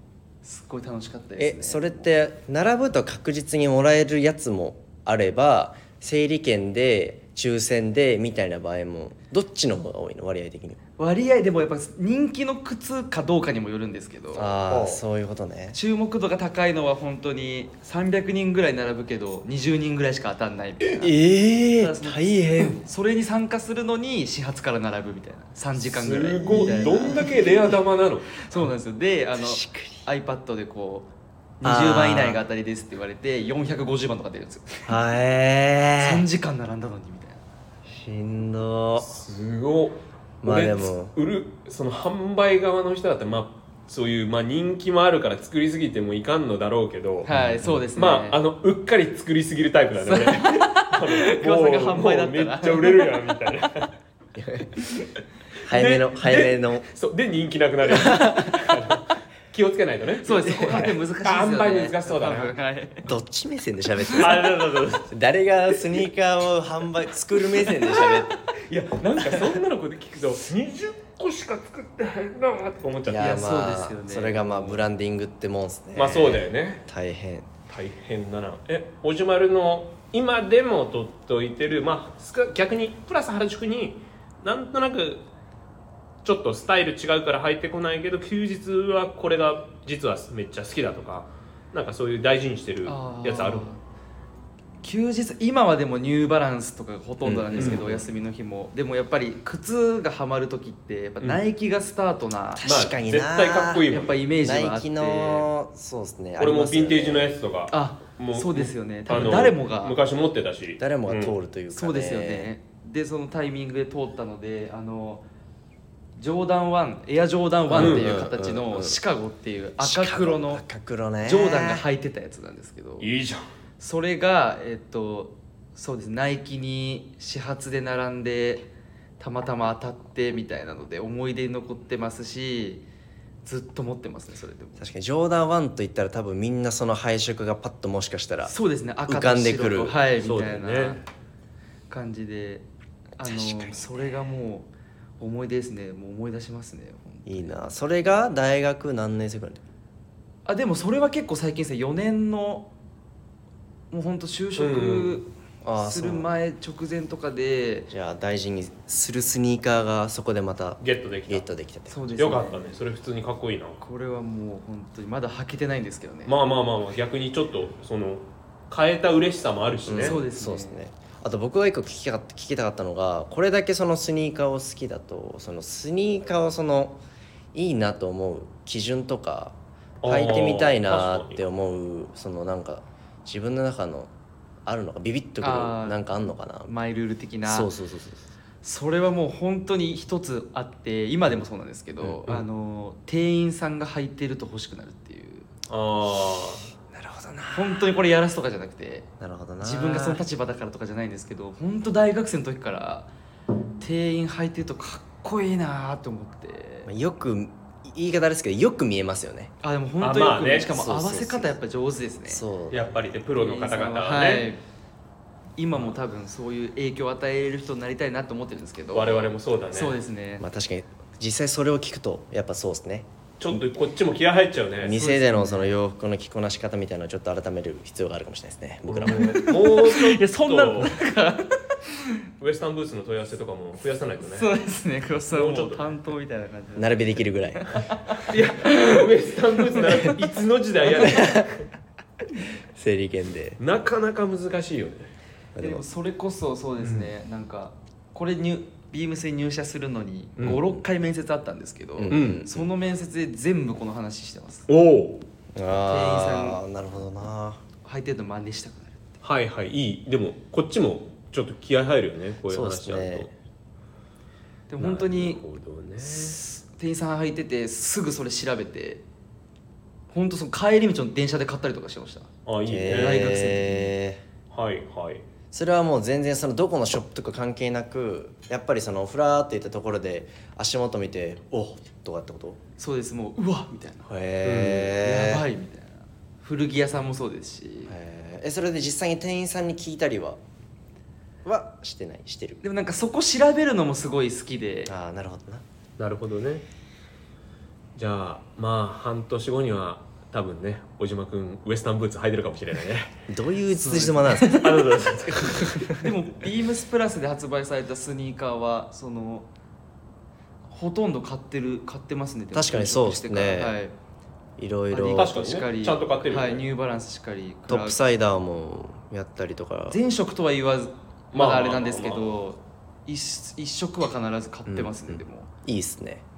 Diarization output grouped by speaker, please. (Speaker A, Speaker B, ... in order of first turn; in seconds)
Speaker A: 0.4-2.0, 11.0-14.6, 15.7-21.2, 21.8-27.5, 28.4-31.1, 31.6-35.0, 36.0-37.4, 47.2-48.4, 50.0-53.1, 60.2-63.1, 73.2-74.8, 92.8-93.8, 94.8-102.7, 103.9-105.5, 107.7-110.0, 111.7-115.2, 116.2-120.6, 121.2-123.1, 123.8-132.8, 133.4-134.8, 138.5-141.0, 141.9-142.7, 143.2-144.7, 145.2-147.7, 150.5-152.7, 153.9-157.9, 161.9-162.8, 163.8-166.4, 169.9-170.8, 185.4-186.0, 186.7-187.7, 188.6-195.5, 197.5-199.1, 199.6-203.1, 203.8-206.9, 209.6-212.4, 213.3-214.6, 215.6-220.4, 224.9-225.7, 229.1-232.2, 234.2-240.1, 245.6-254.7, 255.9-256.6, 257.8-259.0, 264.7-265.4, 266.0-269.0, 270.1-272.3, 272.9-273.9, 282.8-284.1, 284.9-287.9, 292.6-294.9, 303.7-304.9, 305.9-309.5, 310.7-313.9, 314.9-318.0, 319.9-325.5
Speaker B: 1.4-10.8, 14.3-15.8, 20.9-22.8, 29.4-30.0, 31.6-32.4, 34.9-36.2, 37.9-39.1, 40.4-41.1, 47.3-47.7, 54.4-54.7, 55.7-56.9, 57.9-58.8, 63.1-64.6, 65.1-68.3, 73.0-77.5, 102.6-107.4, 110.8-112.5, 117.7-119.0, 119.8-121.8, 134.8-138.5, 139.1-140.0, 143.2-143.9, 147.3-149.6, 155.6-156.3, 157.9-161.9, 169.9-177.0, 177.5-184.1, 184.7-186.7, 187.4-188.2, 196.9-197.8, 199.2-200.2, 206.9-209.5, 210.7-211.6, 212.3-213.0, 220.4-223.1, 224.8-229.4, 236.8-237.7, 241.0-241.5, 242.8-243.6, 245.6-245.8, 252.0-252.7, 255.6-257.6, 262.5-263.3, 272.7-274.2, 275.5-282.6, 284.1-285.4, 287.9-290.4, 291.4-292.6, 294.9-295.6, 303.3-304.9, 312.5-313.8, 314.6-315.4, 317.7-320.0, 324.7-326.2
Speaker C: 14.7-15.0, 25.8-28.5, 39.0-47.3, 48.0-53.9, 55.7-62.5, 64.2-65.1, 67.9-73.4, 76.0-76.8, 77.7-85.3, 86.2-93.7, 97.3-98.0, 102.6-104.2, 106.4-111.3, 117.7-118.1, 123.0-123.5, 140.2-141.0, 154.6-155.2, 160.8-161.4, 162.2-163.8, 166.3-170.2, 180.0-181.4, 195.7-196.6, 210.0-210.7, 212.7-214.5, 218.9-220.0, 223.4-224.9, 228.9-231.0, 232.4-234.5, 235.3-235.8, 238.2-241.7, 243.6-245.1, 252.1-252.4, 254.7-255.2, 259.2-263.3, 264.8-266.4, 272.5-273.3, 274.5-275.2, 284.4-284.9, 296.0-296.6, 298.0-303.1, 304.4-306.0, 315.1-316.6, 321.3-322.4